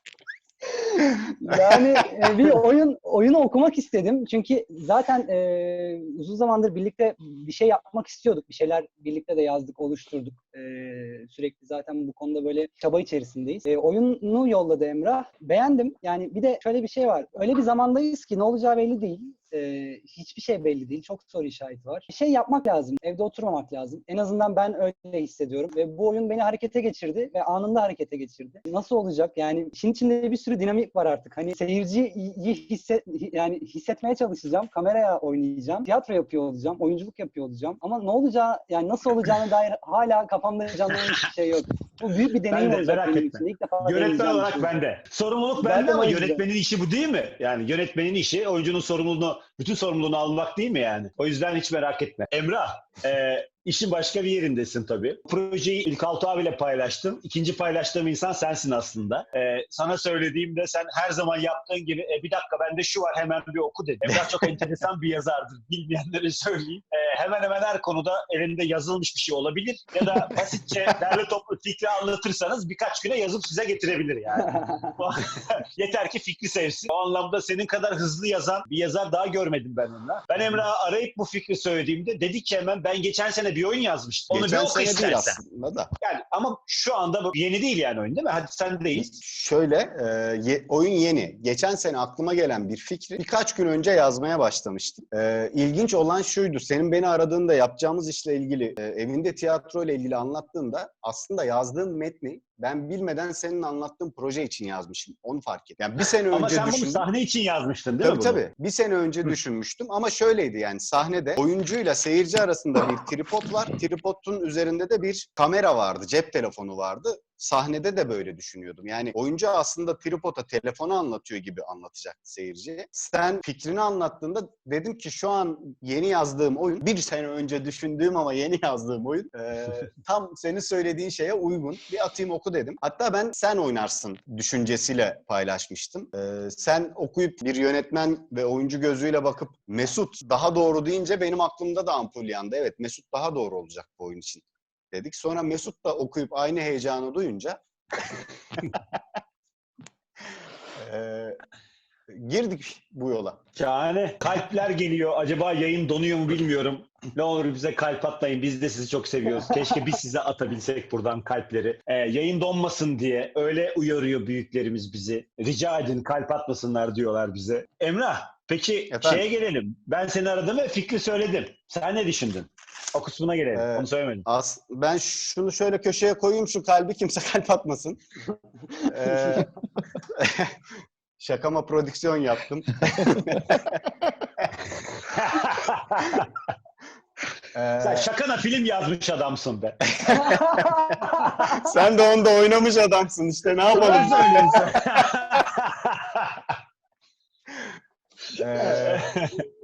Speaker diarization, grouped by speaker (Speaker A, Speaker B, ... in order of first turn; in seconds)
Speaker A: 0.6-44.8, 45.6-46.4
Speaker B: 42.5-85.4, 86.0-89.1, 106.3-108.4, 153.6-174.2, 185.0-186.3, 187.8-190.3, 193.7-196.5, 198.6-199.4
Speaker C: 84.3-85.9, 88.9-107.0, 108.0-148.2, 150.8-151.4, 152.1-153.4, 168.9-169.2, 173.5-178.0, 178.8-180.5, 181.2-184.5, 187.5-188.1, 190.0-195.4, 198.3-199.1